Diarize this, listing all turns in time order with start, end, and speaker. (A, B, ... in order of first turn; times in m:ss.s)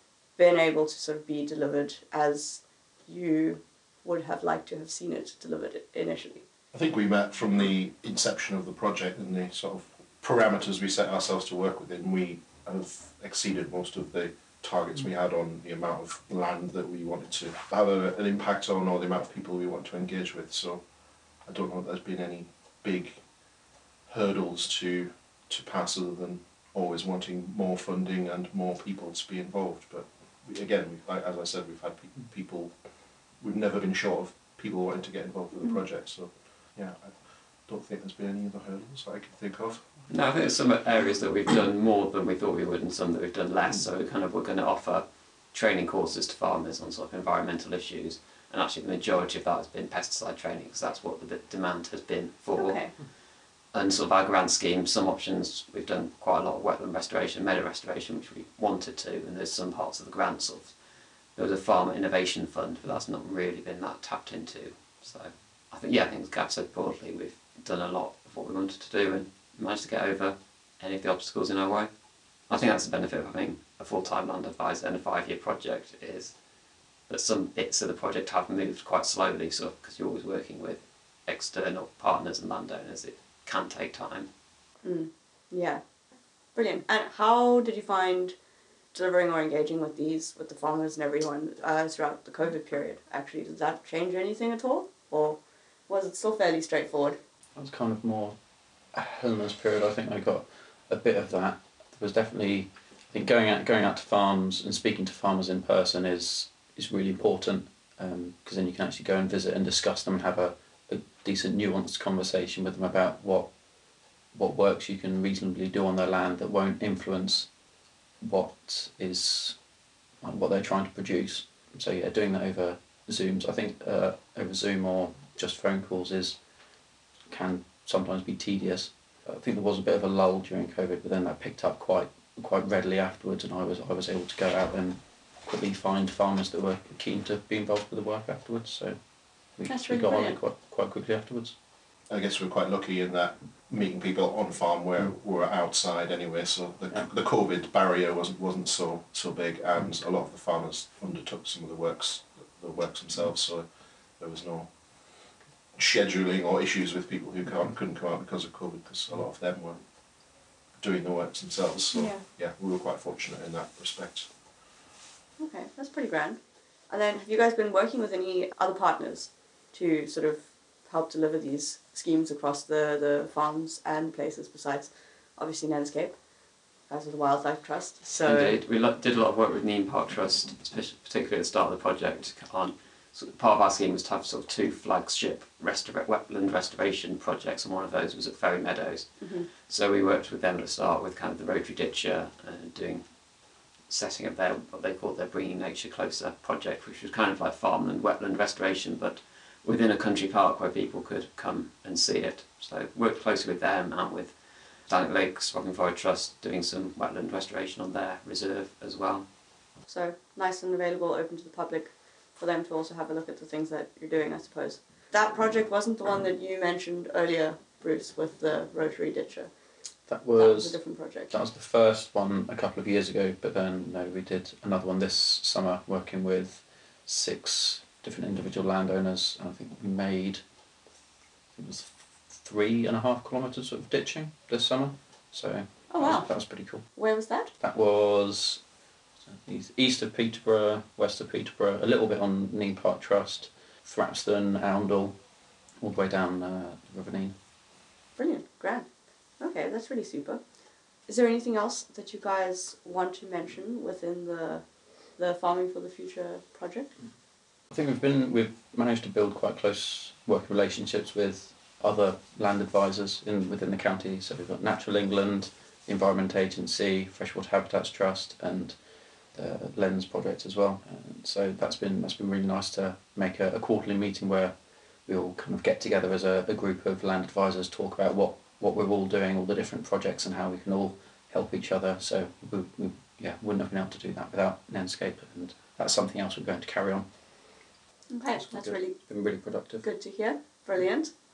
0:00.4-0:06.4 A
0:06.7-0:40.0 B
0:40.1-0:53.0 C
0:52.6-0:52.9 A
0:53.7-1:00.7 C
1:01.4-1:11.9 C
1:12.5-1:16.3 C
1:17.1-1:24.3 C
1:24.8-1:25.8 A
1:26.5-1:28.4 A
1:28.9-1:37.2 A
1:37.6-1:38.4 D
1:38.9-1:53.5 D
1:54.3-1:57.5 D
1:58.2-1:59.6 D
2:00.2-2:06.4 D
2:07.3-2:21.6 D
2:19.7-2:20.4 A
2:22.1-2:40.0 B
2:40.8-2:44.3 B
2:41.9-2:42.2 A
2:45.4-2:56.2 A
2:56.9-2:58.6 A
2:58.2-3:13.0 C
3:09.2-3:09.5 A
3:13.9-3:24.4 C
3:24.9-3:29.2 C
3:29.9-3:39.5 A
3:40.1-3:50.4 D
3:40.4-3:41.3 A
3:51.5-3:56.8 D
3:55.9-3:56.3 A
3:56.9-3:57.5 A
3:57.6-3:58.6 D
3:59.2-4:05.2 D
4:05.8-4:07.3 D
4:08.2-4:08.9 A
4:09.4-4:10.4 A
4:11.1-4:14.6 A
4:15.2-4:16.9 A
4:17.7-4:28.8 D
4:29.3-4:47.0 D
4:48.1-4:49.0 A
4:48.3-4:49.8 D
4:49.8-4:51.1 A